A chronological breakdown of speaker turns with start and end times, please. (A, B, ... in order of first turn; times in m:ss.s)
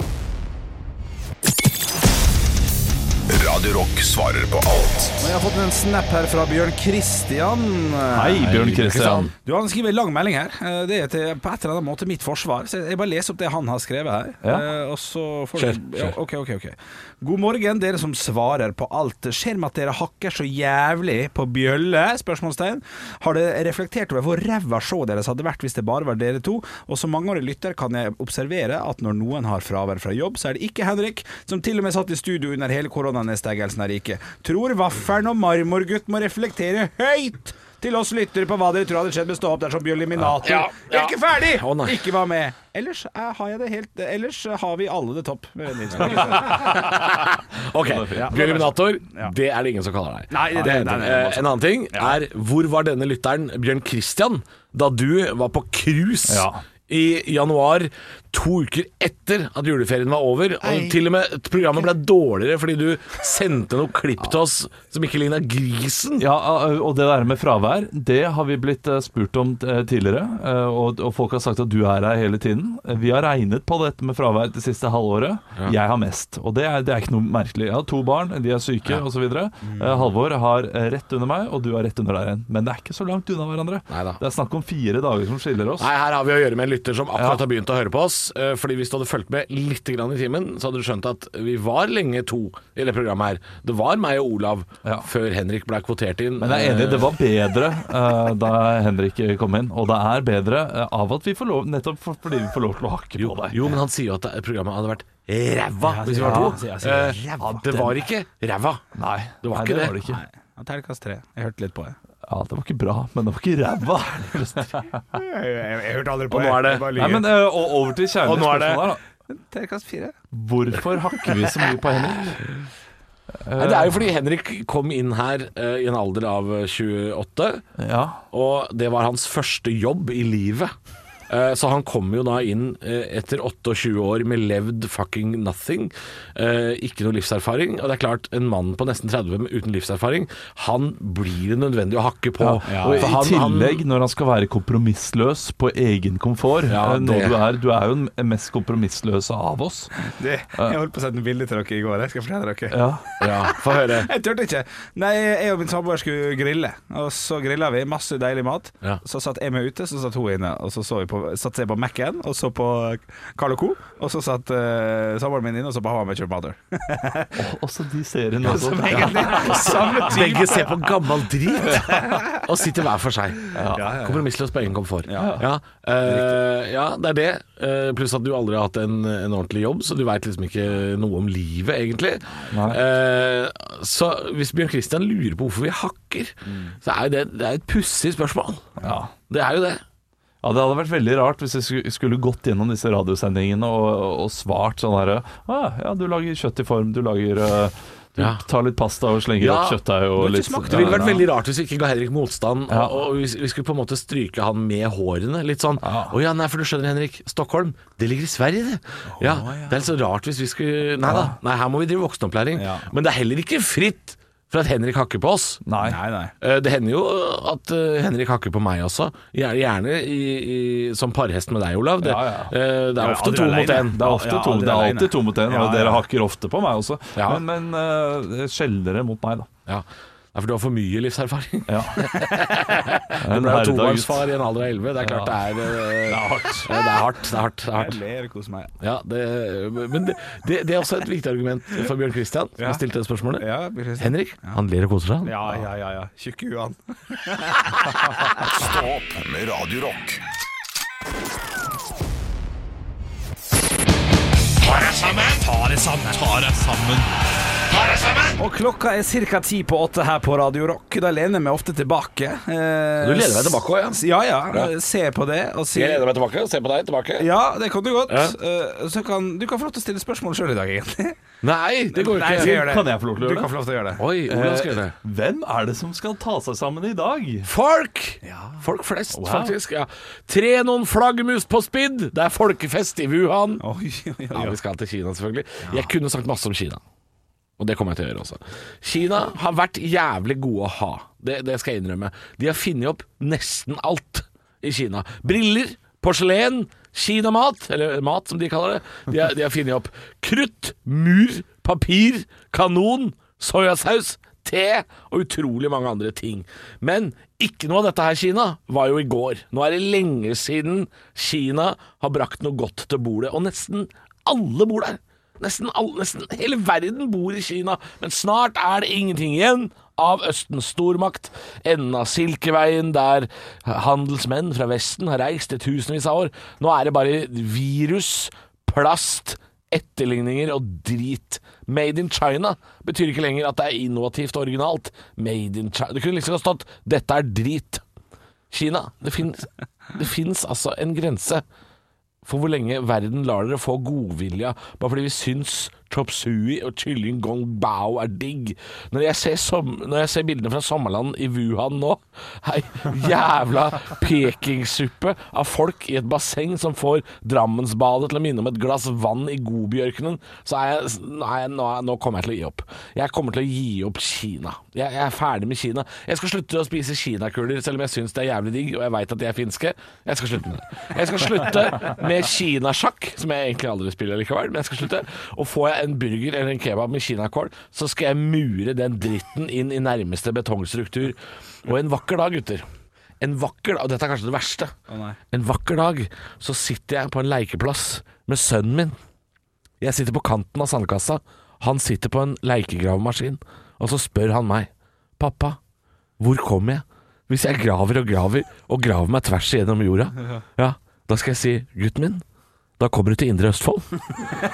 0:03.3-0:05.3 A
0:05.2-0:08.5 B
0:08.1-0:09.3 C
0:08.4-0:09.3 D
0:09.4-0:46.9 B
0:15.6-0:16.1 D
0:40.2-0:42.1 D
0:46.1-1:06.3 D
0:47.8-0:48.4 C
0:48.1-0:49.3 B
0:50.3-0:52.2 B
0:56.3-0:56.6 C
1:00.6-1:00.9 B
1:06.2-1:25.9 C
1:23.9-1:24.2 D
1:25.8-1:37.1 D
1:27.1-1:27.4 C
1:36.4-1:43.7 C
1:43.2-1:48.8 D
1:45.8-1:47.6 B
1:46.2-1:46.6 C
1:47.4-1:48.0 C
1:48.9-1:50.2 C
1:49.4-1:50.0 D
1:50.0-1:52.0 B
1:52.3-1:55.0 C
1:55.1-1:57.3 B
1:56.3-1:57.2 D
1:56.9-1:59.0 C
1:58.2-1:58.9 D
1:59.3-2:00.1 B
2:00.3-2:02.4 C
2:03.4-2:04.0 C
2:03.6-2:07.6 D
2:07.8-2:08.2 C
2:08.3-2:10.7 D
2:11.3-2:23.8 D
2:22.4-2:29.9 C
2:22.6-2:23.1 B
2:26.7-2:27.4 D
2:30.0-2:47.4 B
2:32.7-2:33.0 C
2:33.2-2:34.1 D
2:47.4-2:50.1 C
2:48.4-2:50.9 B
2:48.9-3:08.7 D
2:51.5-2:52.4 B
2:53.5-2:54.0 C
2:53.7-2:54.2 B
2:55.0-2:55.4 B
2:55.2-2:55.4 C
3:02.5-3:02.8 C
3:06.4-3:06.7 B
3:08.8-3:09.1 C
3:09.3-3:09.8 D
3:10.4-3:21.2 C
3:18.2-3:18.4 D
3:19.4-3:19.8 D
3:20.2-3:21.2 B
3:20.7-3:35.6 D
3:22.7-3:23.1 C
3:25.8-3:26.1 C
3:29.1-3:29.8 B
3:31.0-3:31.3 C
3:32.5-3:32.9 B
3:35.6-3:36.0 C
3:35.8-3:36.3 B
3:36.4-3:44.0 D
3:42.0-3:42.5 C
3:43.0-3:46.0 B
3:43.8-3:49.5 C
3:47.2-3:47.4 D
3:49.7-3:58.0 D
3:51.7-3:52.2 C
3:53.2-3:54.3 C
3:55.0-3:55.4 C
3:55.9-3:56.7 C
3:57.7-3:58.7 B
3:58.8-4:03.4 D
4:03.4-4:04.6 B
4:04.0-4:05.6 D
4:05.2-4:08.2 B
4:08.4-4:10.2 A
4:15.1-4:16.8 B
4:16.3-4:17.0 C
4:18.4-4:26.0 B
4:23.0-4:24.7 D
4:25.7-4:27.3 D
4:27.2-4:31.2 B
4:28.1-4:28.3 D
4:31.4-4:32.6 D
4:31.9-4:34.0 B
4:32.2-4:33.5 C
4:34.0-4:34.9 D
4:34.2-4:37.5 C
4:37.4-4:43.6 D
4:38.2-4:38.6 B
4:39.1-4:39.5 C
4:43.6-4:44.6 B
4:44.3-4:46.8 D
4:47.6-5:37.8 D
5:38.5-5:41.4 D
5:42.2-6:22.6 D
6:23.2-6:24.7 D
6:24.9-6:25.2 B
6:25.3-6:29.0 D
6:29.8-6:35.6 D
6:36.2-6:42.2 D
6:42.8-6:44.0 D